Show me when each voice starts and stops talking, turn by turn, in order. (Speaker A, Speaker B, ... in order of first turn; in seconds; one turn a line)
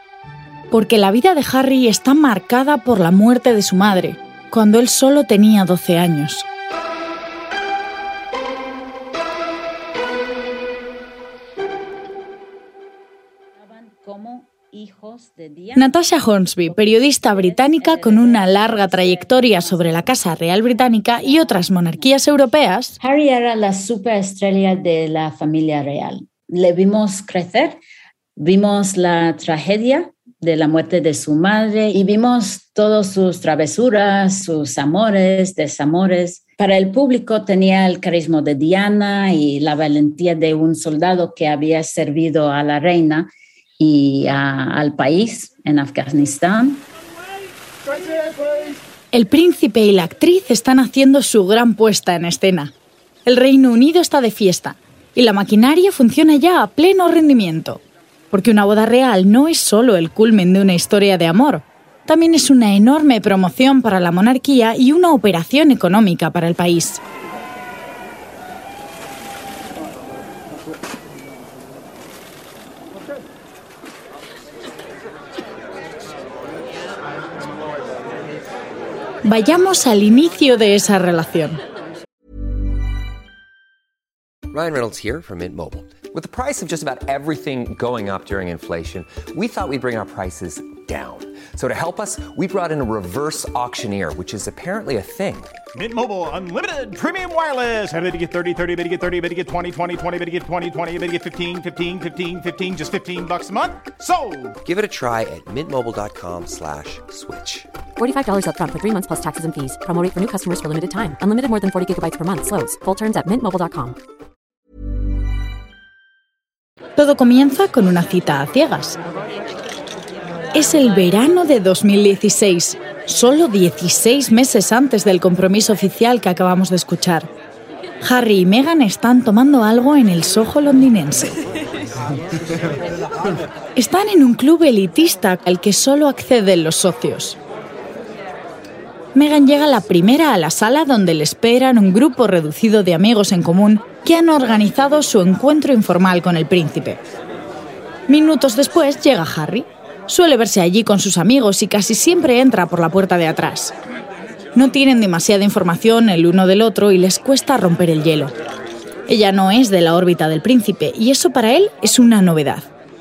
Speaker A: 0.7-6.5
Speaker B: 13.6-16.1
Speaker A: 15.8-23.0
Speaker B: 16.6-22.1
Speaker B: 23.0-27.8
Speaker B: 28.4-46.9
Speaker A: 49.1-52.7
Speaker A: 53.3-67.0
Speaker A: 79.2-81.6
Speaker C: 84.5-95.5
Speaker D: 95.7-104.6
Speaker C: 104.6-107.7
Speaker E: 108.0-114.0
Speaker A: 117.0-119.0
Speaker A: 120.5-127.3
Speaker A: 128.0-131.4
Speaker A: 133.8-137.4
Speaker A: 139.2-147.0
Speaker A: 148.1-153.7
Speaker A: 154.6-158.3
Speaker A: 159.1-162.7